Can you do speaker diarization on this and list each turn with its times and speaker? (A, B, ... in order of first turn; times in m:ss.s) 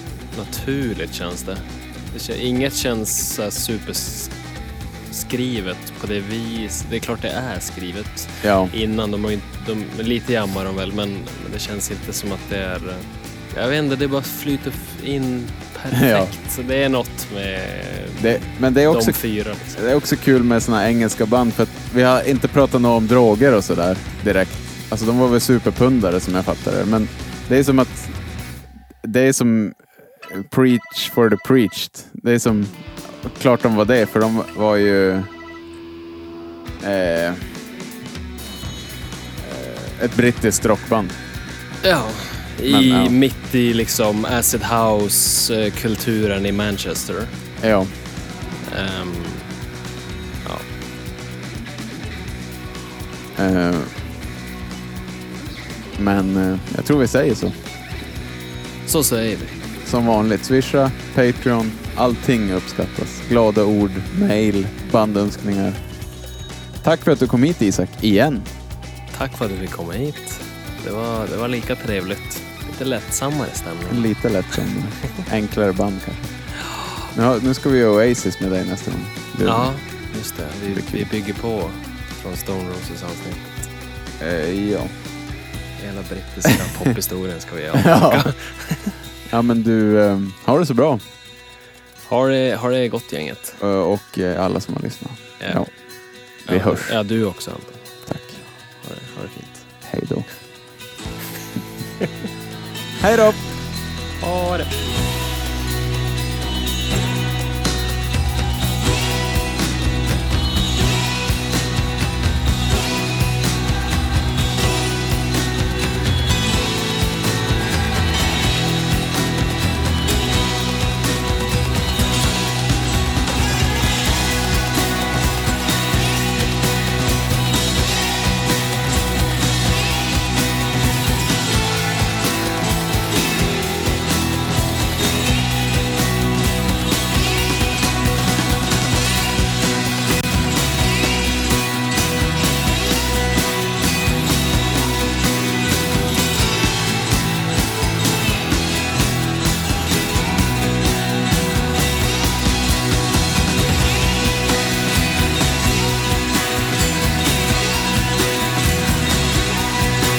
0:00.3-0:04.3 A
0:05.1-0:19.8 A
0:08.4-0:08.7 B
0:15.9-0:16.3 B
0:18.2-0:19.2 B
0:19.7-0:28.2 B
0:29.0-0:35.3 B
0:36.8-0:37.5 B
0:39.4-0:41.2 B
0:41.8-0:47.3 A
0:42.6-0:43.2 B
0:47.6-0:47.9 B
0:48.6-0:49.5 A
0:53.4-0:53.9 B
0:56.0-0:57.6 B
0:58.8-0:59.5 A
0:59.8-1:05.8 B
1:06.8-1:08.5 B
1:09.1-1:14.1 A
1:13.9-1:16.3 B
1:17.1-1:19.7 B
1:19.4-1:23.7 A
1:20.7-1:21.1 B
1:24.2-1:24.9 B
1:25.8-1:28.9 A
1:27.7-1:28.3 B
1:29.3-1:31.0 B
1:32.1-1:33.6 A
1:33.6-1:35.7 B
1:35.4-1:35.7 A
1:36.4-1:36.9 B
1:36.5-1:37.8 A
1:38.0-1:38.4 B
1:38.7-1:39.7 A
1:39.8-1:40.2 B
1:43.0-1:43.5 B
1:44.2-1:44.7 A